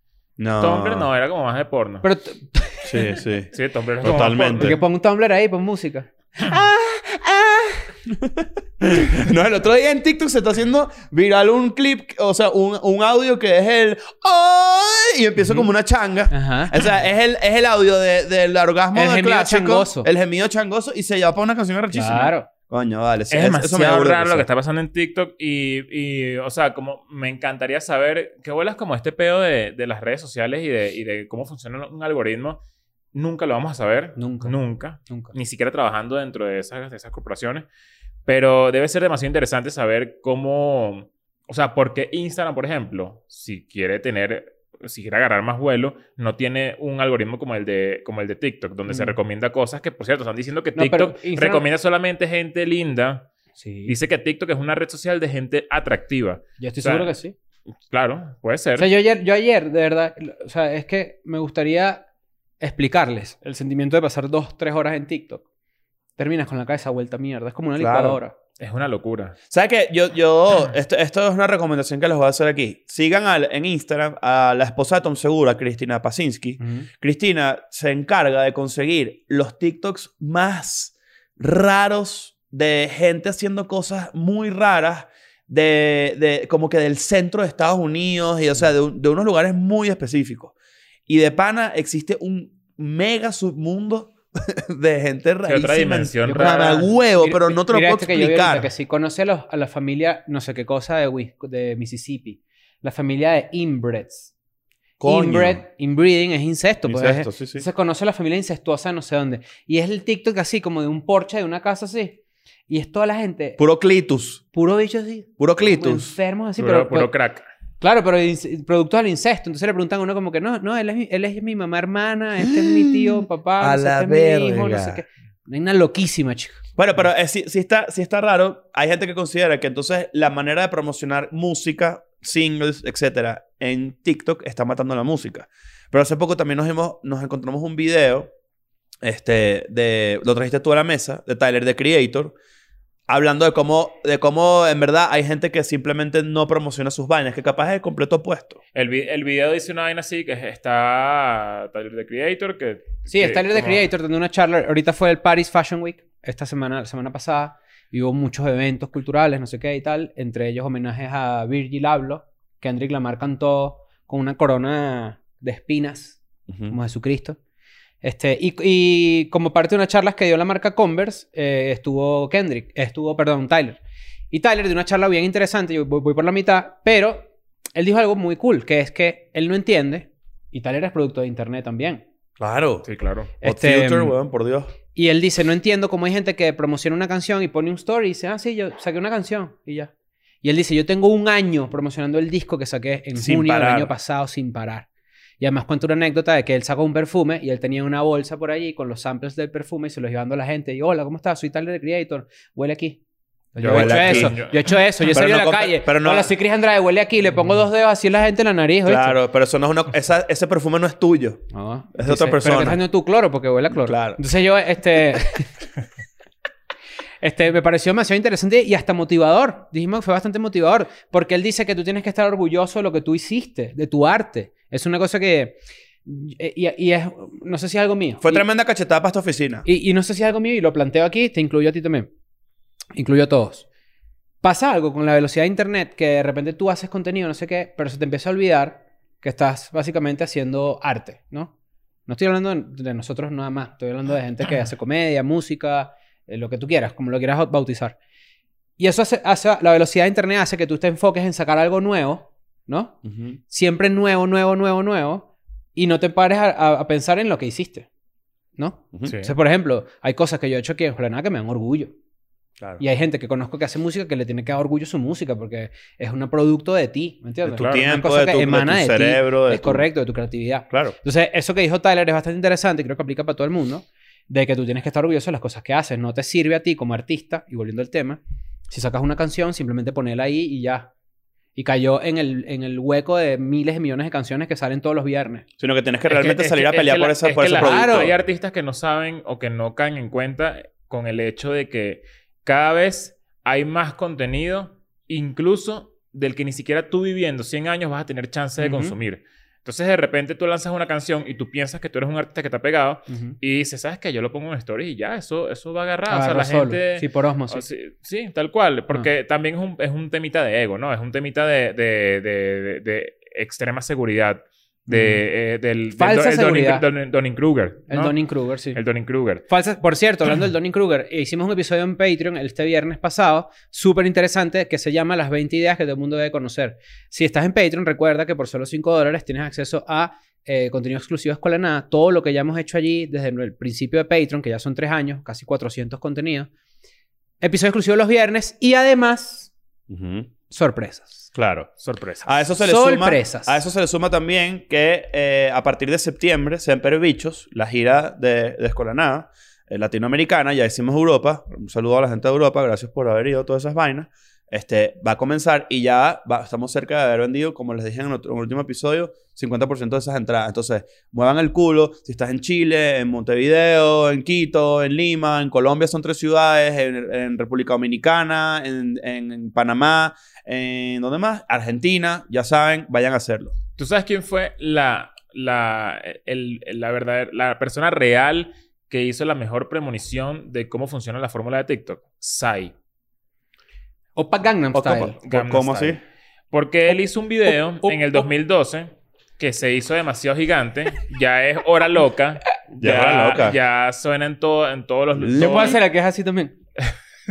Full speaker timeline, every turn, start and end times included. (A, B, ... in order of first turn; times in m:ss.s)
0:00.4-0:01.1 A
0:00.6-0:02.1 B
0:02.0-0:03.2 C
0:02.8-0:03.5 A
0:03.5-0:04.8 B
0:04.0-0:04.8 A
0:04.5-0:07.8 C
0:08.1-0:24.5 A
0:16.3-0:16.8 C
0:18.9-0:20.1 C
0:21.9-0:22.5 C
0:23.3-0:32.6 B
0:33.1-0:37.7 B
0:34.2-0:34.6 C
0:35.1-0:35.3 C
0:38.3-0:53.3 B
0:48.9-0:49.2 C
0:50.8-0:51.6 C
0:53.6-0:54.0 C
0:53.9-0:57.1 B
0:56.6-0:57.4 C
0:57.9-0:58.9 B
0:58.8-1:02.0 C
1:02.6-1:05.4 C
1:06.2-1:08.3 C
1:07.8-1:08.2 A
1:08.6-1:09.4 B
1:09.5-1:30.5 A
1:16.6-1:16.9 C
1:31.1-1:38.7 A
1:35.5-1:36.9 B
1:36.3-1:44.3 C
1:45.0-1:45.6 A
1:45.0-1:53.6 C
1:46.9-1:47.6 A
1:53.6-1:54.4 A
1:54.5-1:57.1 C
1:55.4-1:56.2 A
1:56.6-1:57.5 B
1:57.8-2:06.6 C
2:02.4-2:05.0 A
2:06.8-2:18.3 A
2:19.0-2:22.3 A
2:23.1-2:28.6 A
2:28.8-2:33.8 B
2:33.1-2:47.4 C
2:46.5-2:46.8 A
2:48.0-2:53.8 C
2:54.3-3:02.0 C
3:02.4-3:02.9 A
3:02.8-3:03.3 B
3:03.4-3:04.2 C
3:03.4-3:04.7 A
3:05.0-3:09.9 C
3:10.4-3:14.9 C
3:13.2-3:13.9 A
3:15.4-3:23.0 C
3:23.6-3:29.2 C
3:23.6-3:24.7 B
3:23.6-3:24.4 A
3:25.1-3:26.3 A
3:28.9-3:32.8 A
3:31.5-3:35.5 C
3:33.7-3:34.2 A
3:37.2-3:48.5 C
3:48.2-3:49.7 A
3:49.7-3:52.1 C
3:53.0-3:53.7 C
3:54.4-4:01.5 C
4:02.1-4:08.0 C
4:08.8-4:13.0 C
4:13.0-4:13.4 A
4:13.5-4:17.9 C
4:18.6-4:21.9 C
4:19.1-4:19.3 B
4:22.8-4:40.9 C
4:27.5-4:29.9 A
4:27.6-4:27.8 B
4:41.6-4:45.4 C
4:45.6-4:48.2 A
4:46.1-5:18.2 B
4:47.5-4:48.1 C
4:58.6-4:59.0 C
5:03.1-5:03.4 C
5:06.1-5:07.6 C
5:14.9-5:15.2 C
5:16.0-5:16.8 C
5:17.9-5:18.8 C
5:18.7-5:19.4 B
5:19.5-5:36.5 C
5:37.4-5:39.5 C
5:39.9-5:40.3 A
5:40.5-5:41.3 C
5:41.4-5:41.7 A
5:41.8-5:42.4 B
5:42.2-6:13.5 A
5:42.6-5:43.6 C
6:13.8-6:22.7 B
6:24.2-6:25.1 C
6:24.7-6:26.0 A
6:25.2-6:26.0 B
6:26.5-6:35.8 B
6:27.8-6:28.2 C
6:32.8-6:33.6 A
6:35.2-6:35.8 A
6:35.4-6:36.6 C